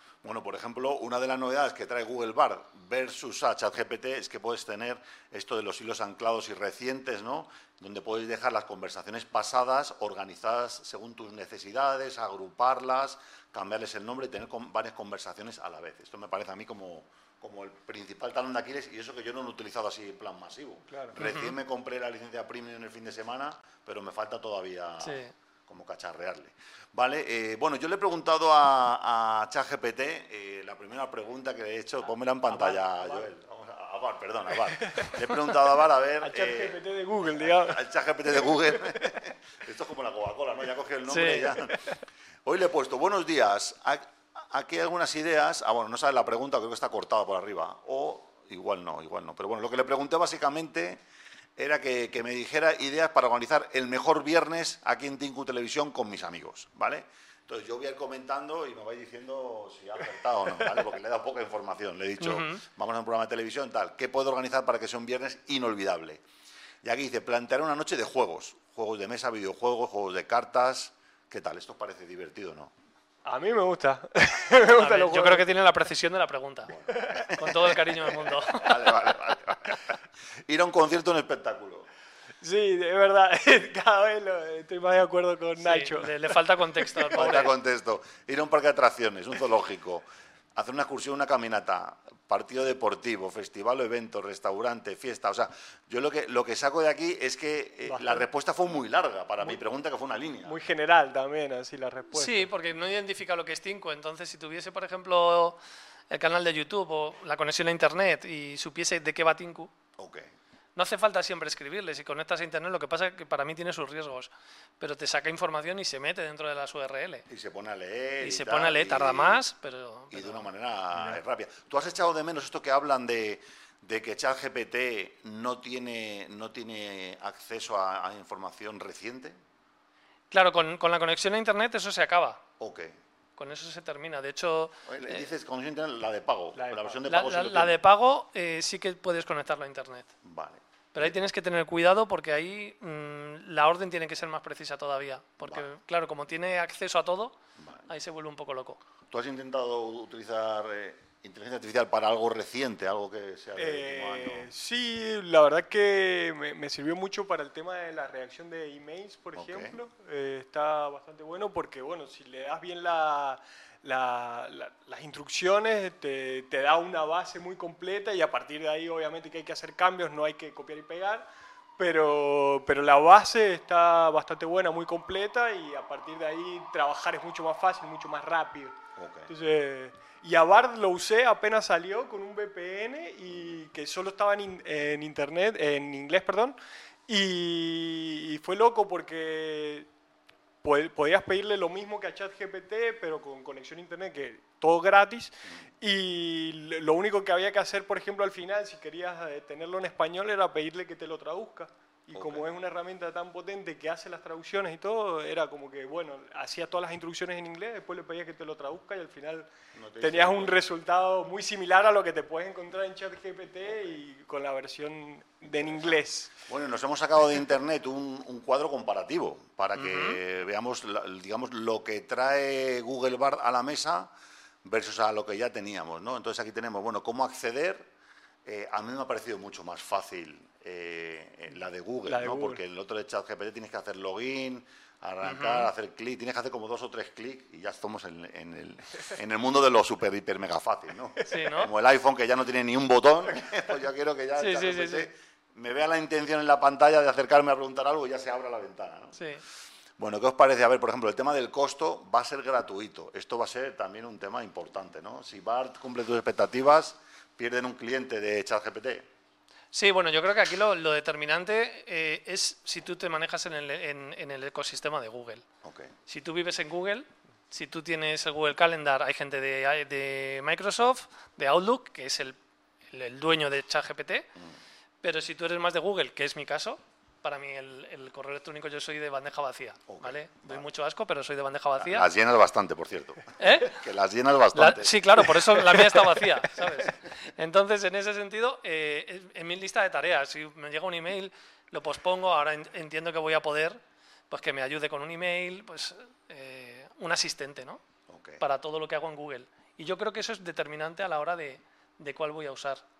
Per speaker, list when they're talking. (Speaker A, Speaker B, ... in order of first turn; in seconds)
Speaker A: 0.2-41.8, 42.4-51.0, 51.6-66.2, 66.8-72.7, 76.7-77.7, 78.3-79.9, 80.5-81.9, 87.1-90.0, 90.5-100.5, 110.0-110.3, 117.3-119.4, 120.1-129.4, 132.6-132.9, 134.8-137.8, 140.2-141.2, 147.6-147.9, 149.1-154.5, 159.3-159.8, 178.9-179.3, 202.1-202.5, 209.7-210.6, 215.5-224.1, 224.6-227.9, 228.4-249.2, 250.0-259.1, 265.6-265.9, 279.9-280.6, 281.8-285.9, 298.1-298.4
Speaker B: 20.9-21.1, 32.5-33.3, 34.7-35.1, 36.2-39.2, 41.5-41.9, 73.2-75.5, 76.9-77.3, 82.4-87.2, 97.8-98.2, 100.4-102.5, 120.9-121.2, 136.5-137.0, 153.6-178.8, 179.3-186.6, 187.1-189.9, 190.6-216.3, 232.1-232.6
Speaker C: 21.2-21.6, 25.0-25.3, 41.1-41.5, 62.2-62.6, 74.7-76.7, 77.3-78.8, 85.6-87.5, 102.1-105.6, 106.1-109.7, 110.8-117.2, 118.2-120.5, 130.3-132.4, 133.4-135.2, 137.1-140.1, 140.9-148.8, 219.8-220.2, 235.2-235.7, 241.2-241.7, 244.3-245.1, 249.2-249.4, 259.7-265.4, 266.1-272.4, 272.9-274.2, 275.0-282.1, 283.4-283.8, 284.5-293.8, 294.3-297.8, 298.4-302.8